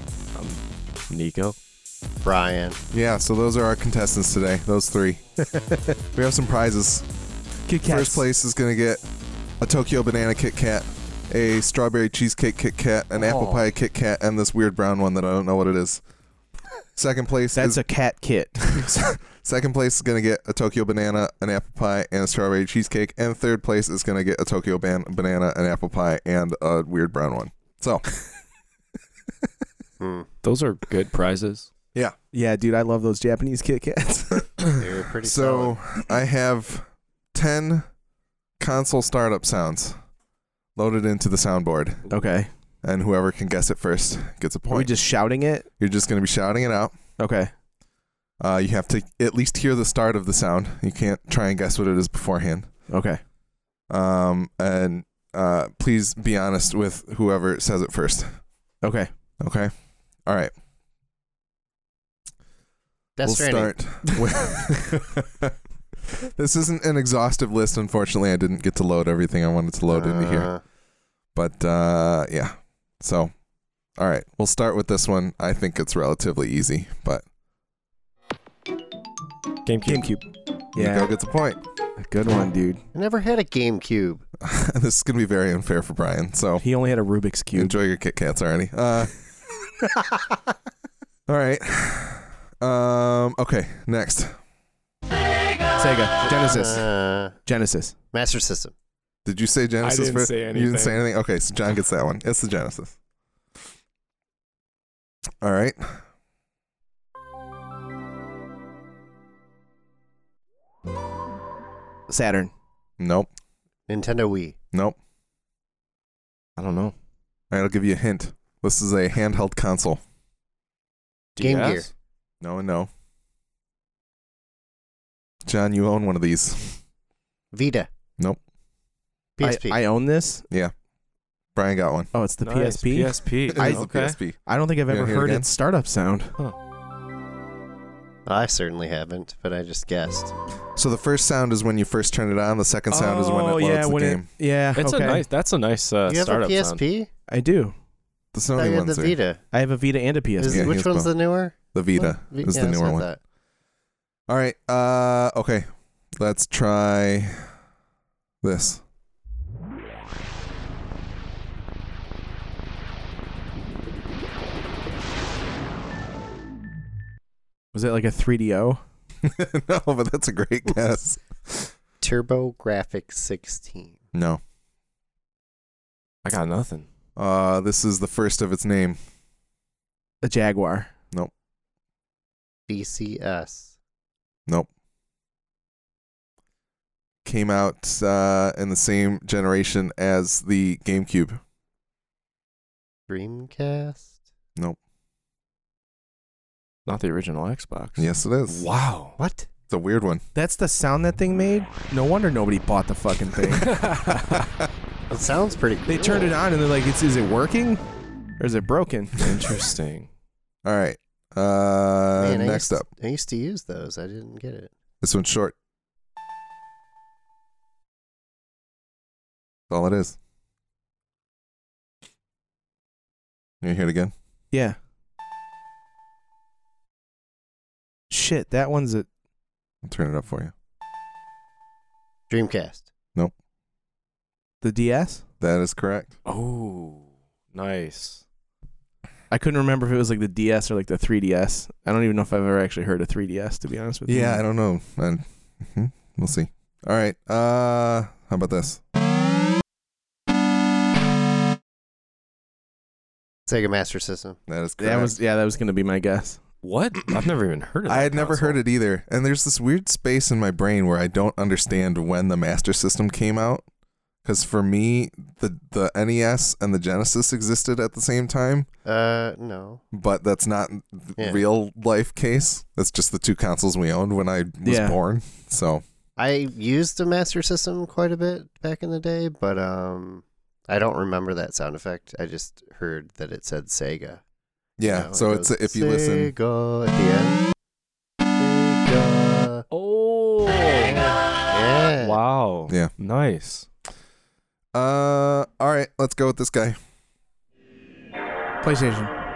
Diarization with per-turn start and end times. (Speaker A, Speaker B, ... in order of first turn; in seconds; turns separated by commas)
Speaker A: 0.3-1.6, Speaker B: 2.2-2.8, Speaker C: 2.9-5.2, Speaker C: 6.1-7.0, Speaker D: 7.7-8.3, Speaker C: 7.8-9.0, Speaker C: 9.6-16.0, Speaker C: 17.0-17.8, Speaker D: 17.5-18.8, Speaker C: 18.7-28.1, Speaker B: 30.0-30.3, Speaker A: 30.4-31.7, Speaker D: 32.3-34.5, Speaker B: 34.8-35.8, Speaker C: 35.2-37.9, Speaker C: 38.6-40.0, Speaker C: 40.8-42.1, Speaker D: 42.1-42.5, Speaker C: 42.8-45.0, Speaker D: 44.7-45.7, Speaker C: 45.8-47.0, Speaker D: 47.2-47.5, Speaker C: 48.4-52.7, Speaker D: 52.9-53.2, Speaker C: 53.9-58.3, Speaker D: 58.8-59.1, Speaker C: 59.4-59.7, Speaker C: 60.3-60.5, Speaker B: 63.2-63.8, Speaker C: 63.2-65.5, Speaker C: 66.2-70.5, Speaker B: 69.9-70.6, Speaker C: 71.3-73.3, Speaker C: 74.0-77.2, Speaker A: 79.7-80.3, Speaker D: 79.8-80.1, Speaker C: 80.7-81.6, Speaker D: 80.8-81.1, Speaker D: 82.0-82.8, Speaker B: 82.9-84.2, Speaker C: 84.4-86.6, Speaker D: 86.6-87.8, Speaker C: 87.5-89.2, Speaker C: 91.3-94.4, Speaker D: 95.8-96.9, Speaker B: 96.3-97.4, Speaker D: 97.5-97.9, Speaker B: 98.1-98.7, Speaker C: 99.2-103.0, Speaker A: 99.8-101.0, Speaker C: 105.4-106.0, Speaker D: 112.1-112.5, Speaker C: 113.0-113.3, Speaker B: 113.9-114.6, Speaker A: 116.6-117.0, Speaker C: 117.5-120.0, Speaker A: 121.4-121.9, Speaker B: 121.4-121.9, Speaker C: 122.4-122.9, Speaker C: 125.5-126.8, Speaker B: 127.5-127.9, Speaker B: 129.4-129.8, Speaker D: 129.4-130.4, Speaker C: 131.6-132.1, Speaker D: 132.1-136.3, Speaker A: 132.4-134.2, Speaker C: 133.5-135.5, Speaker B: 138.3-140.3, Speaker C: 140.8-144.3, Speaker D: 142.9-145.3, Speaker A: 144.8-146.8, Speaker B: 146.1-147.1, Speaker D: 147.3-147.8, Speaker C: 148.3-149.2, Speaker B: 148.5-149.4, Speaker D: 149.5-150.7, Speaker B: 150.4-153.2, Speaker C: 150.5-151.2, Speaker C: 151.7-153.1, Speaker C: 154.3-157.5, Speaker C: 158.4-158.8, Speaker D: 167.7-168.8, Speaker C: 169.2-171.7, Speaker B: 172.0-174.0, Speaker C: 174.1-174.4, Speaker A: 176.2-176.9, Speaker C: 177.2-179.0, Speaker D: 180.2-180.9, Speaker B: 182.7-183.7, Speaker C: 187.2-191.4, Speaker B: 193.1-194.1, Speaker A: 196.9-199.2, Speaker C: 198.0-198.7, Speaker B: 199.2-199.5, Speaker C: 199.7-200.2, Speaker D: 200.3-203.7, Speaker A: 203.5-204.3, Speaker B: 205.1-206.4, Speaker D: 205.9-207.8, Speaker D: 208.4-209.2, Speaker A: 209.2-210.1, Speaker C: 210.7-212.9, Speaker B: 212.2-214.7, Speaker C: 215.0-215.6, Speaker C: 219.7-220.2, Speaker C: 223.6-224.1, Speaker D: 224.5-224.8, Speaker D: 228.1-229.1, Speaker C: 229.8-230.5, Speaker B: 232.3-232.9, Speaker D: 234.6-235.2, Speaker C: 235.4-236.2, Speaker A: 236.2-238.2, Speaker D: 239.3-244.4, Speaker C: 244.1-248.8, Speaker B: 253.5-254.4, Speaker C: 254.5-255.2, Speaker D: 254.8-256.4, Speaker A: 256.6-258.6, Speaker C: 257.9-263.6, Speaker C: 264.2-268.7, Speaker B: 268.9-269.8, Speaker C: 269.9-275.8, Speaker B: 271.2-271.4, Speaker D: 274.6-275.0, Speaker B: 276.2-284.2, Speaker C: 284.8-286.3, Speaker B: 284.8-287.4, Speaker B: 288.4-289.6, Speaker A: 289.7-291.2, Speaker B: 290.8-292.2, Speaker A: 292.0-293.7, Speaker C: 294.7-296.8, Speaker D: 298.6-299.1